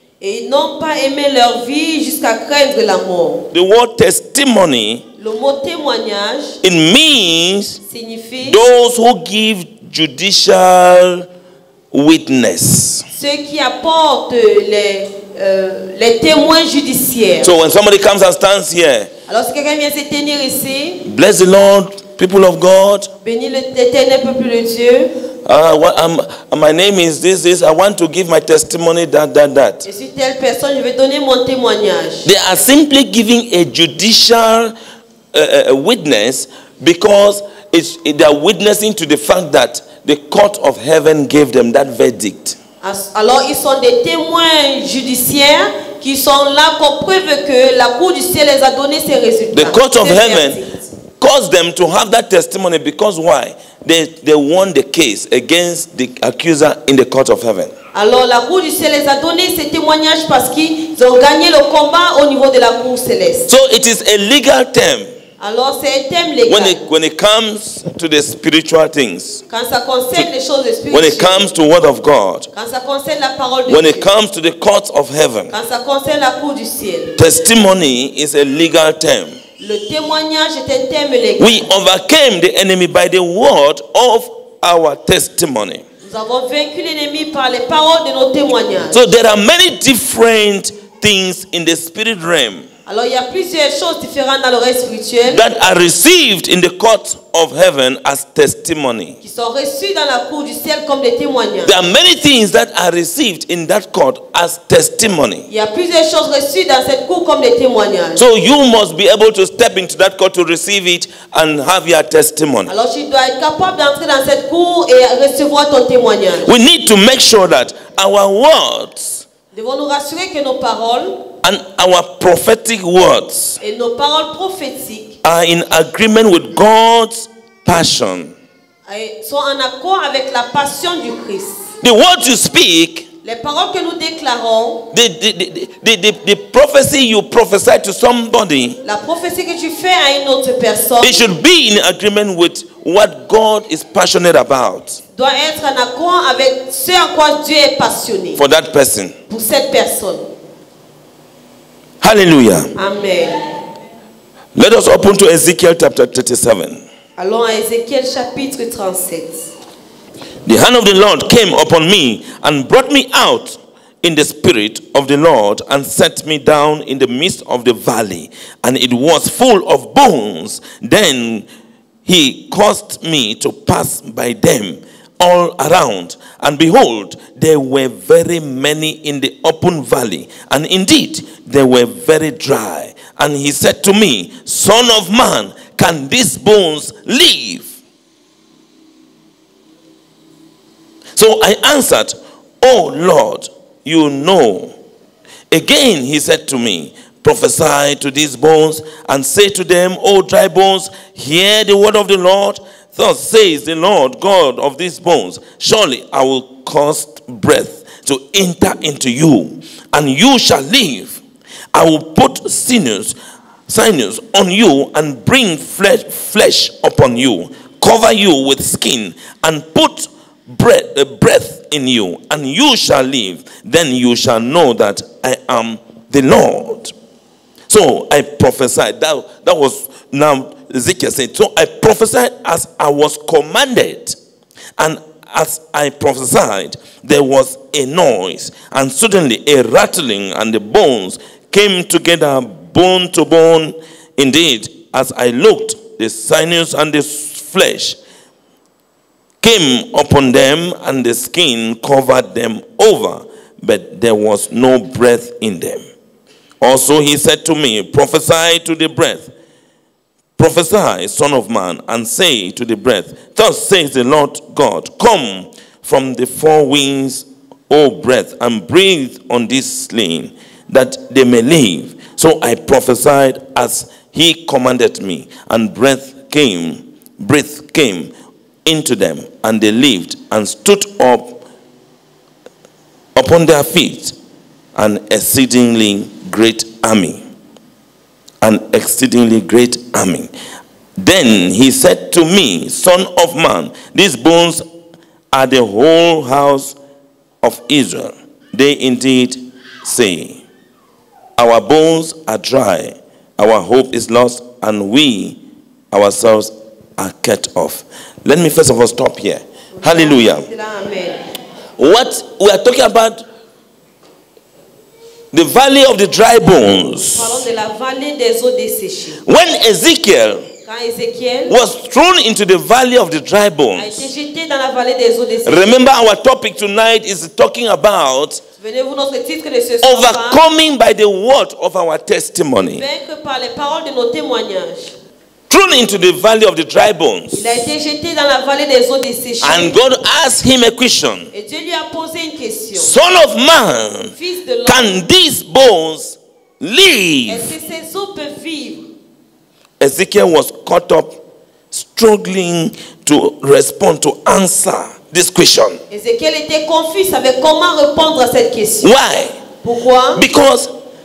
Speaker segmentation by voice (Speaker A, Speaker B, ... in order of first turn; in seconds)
Speaker A: 0.2-3.5, 5.2-6.6, 7.8-8.6, 13.1-17.5, 19.3-21.0, 23.2-25.1, 29.8-32.3, 42.8-50.8, 57.9-63.5, 65.4-66.9, 69.5-71.5, 72.5-74.1, 75.5-77.2, 79.6-81.6, 86.0-89.0, 92.9-95.4, 99.2-101.8, 105.5-108.2, 112.7-116.5, 119.5-121.3, 123.6-125.2, 128.9-131.7, 133.2-134.9, 138.8-141.3, 145.2-148.4, 149.3-150.3, 152.8-153.5, 157.2-159.5, 309.8-311.2, 317.1-319.2, 320.6-321.6, 323.8-325.8, 328.6-330.4, 332.7-334.9, 337.3-339.8, 341.3-342.9, 344.1-345.0, 347.3-348.9, 355.9-358.9, 359.6-360.2
Speaker B: 3.5-5.0, 6.6-7.8, 8.5-11.3, 11.9-13.1, 17.4-19.1, 21.0-23.1, 25.4-29.9, 32.2-34.8, 35.3-42.6, 49.5-50.6, 51.2-57.7, 63.5-65.1, 66.5-69.4, 70.9-72.5, 73.7-75.5, 77.2-79.4, 81.4-85.8, 88.9-92.7, 95.3-99.2, 101.7-105.5, 108.2-112.7, 116.5-119.2, 121.4-123.6, 125.2-128.3, 131.8-133.1, 134.9-138.8, 141.0-145.0, 148.4-149.2, 152.0-152.7, 154.6-156.8, 160.4-171.5, 172.1-187.7, 191.2-194.8, 195.5-211.2, 211.7-213.2, 213.7-226.9, 227.7-234.2, 234.8-248.0, 249.4-255.8, 256.6-259.3, 260.4-278.1, 278.6-281.4, 283.1-284.1, 284.8-287.2, 288.4-290.3, 291.0-294.6, 295.3-296.8, 297.4-300.4, 301.4-305.4, 305.9-310.5, 311.8-313.2, 315.3-317.4, 319.2-320.4, 321.5-324.1, 325.4-328.4, 329.8-332.9, 335.5-337.4, 339.4-341.3, 342.8-344.1, 344.7-347.5, 349.8-355.8, 358.8-359.4, 360.1-360.7